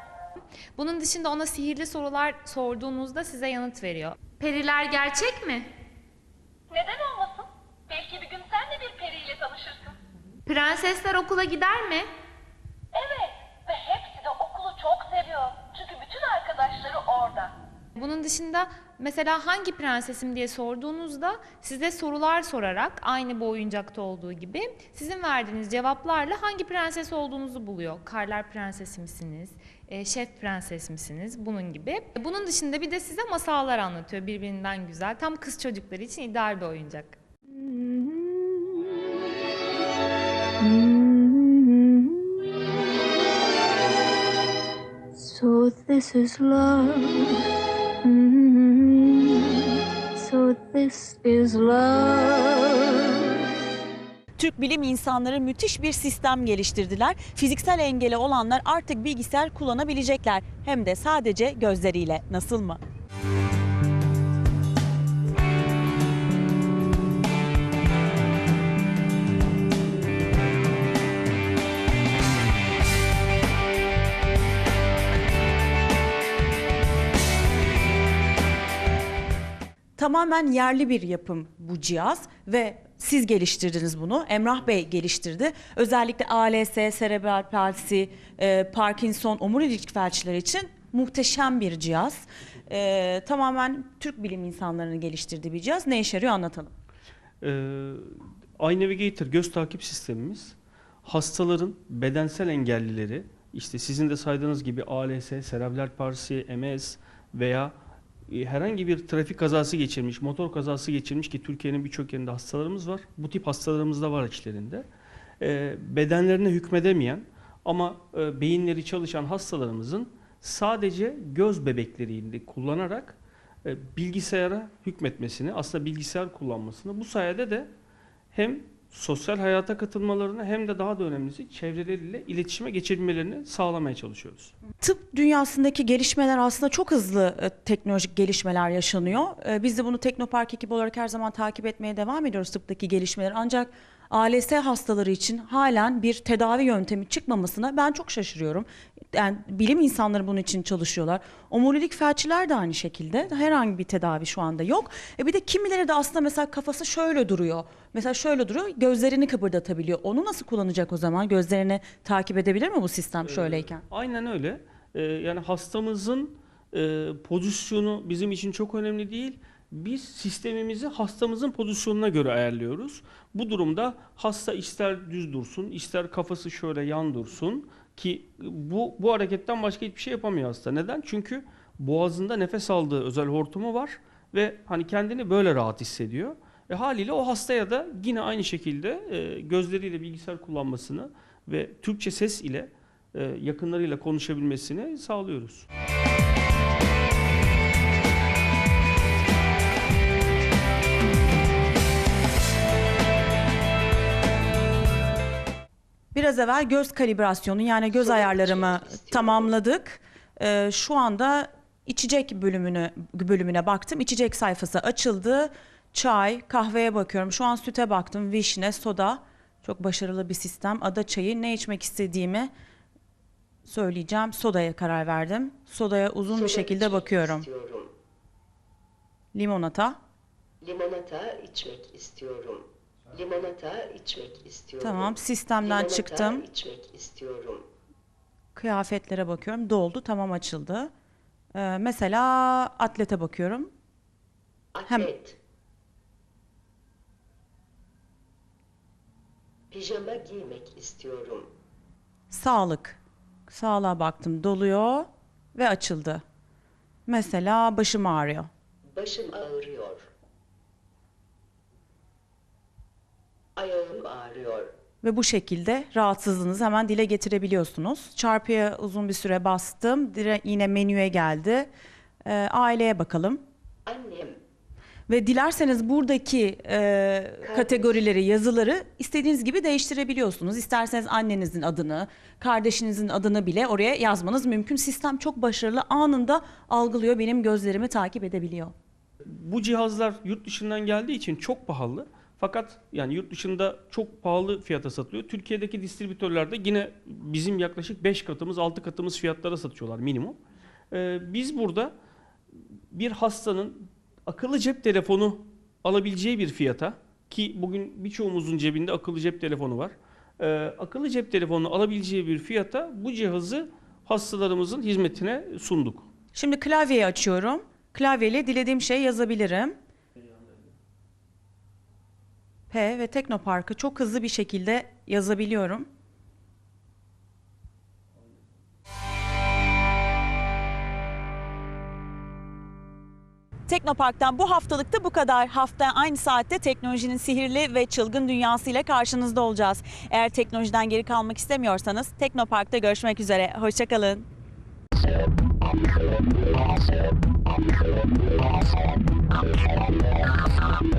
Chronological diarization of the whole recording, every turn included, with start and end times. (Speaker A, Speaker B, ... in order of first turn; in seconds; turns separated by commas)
Speaker A: 0.8-5.7, Speaker B: 6.7-9.9, Speaker A: 10.4-12.1, Speaker B: 12.9-17.6, Speaker A: 17.9-37.1, Speaker C: 37.5-39.0, Speaker C: 40.6-42.3, Speaker C: 45.1-47.4, Speaker C: 48.0-53.3, Speaker D: 54.4-62.8, Speaker D: 80.0-96.7, Speaker E: 97.4-107.8, Speaker E: 108.3-114.9, Speaker E: 115.4-127.7, Speaker E: 128.3-134.5, Speaker D: 134.8-163.8, Speaker E: 163.2-195.7, Speaker D: 206.1-222.5, Speaker F: 207.9-209.5, Speaker D: 223.6-227.5, Speaker F: 226.3-227.9, Speaker D: 229.3-230.0, Speaker F: 230.6-237.7, Speaker D: 234.8-236.4, Speaker D: 238.6-240.9, Speaker D: 241.5-243.7, Speaker F: 244.7-245.4, Speaker F: 249.7-251.5, Speaker D: 252.3-256.2, Speaker D: 257.1-258.5, Speaker F: 258.9-260.1, Speaker F: 263.6-264.7, Speaker D: 265.0-271.7, Speaker D: 272.2-273.4, Speaker F: 273.9-274.4, Speaker D: 275.1-288.7, Speaker F: 277.4-278.0, Speaker E: 289.2-300.4, Speaker E: 300.9-301.9, Speaker E: 302.9-316.1, Speaker D: 316.4-319.8, Speaker D: 322.7-325.9, Speaker D: 333.7-344.3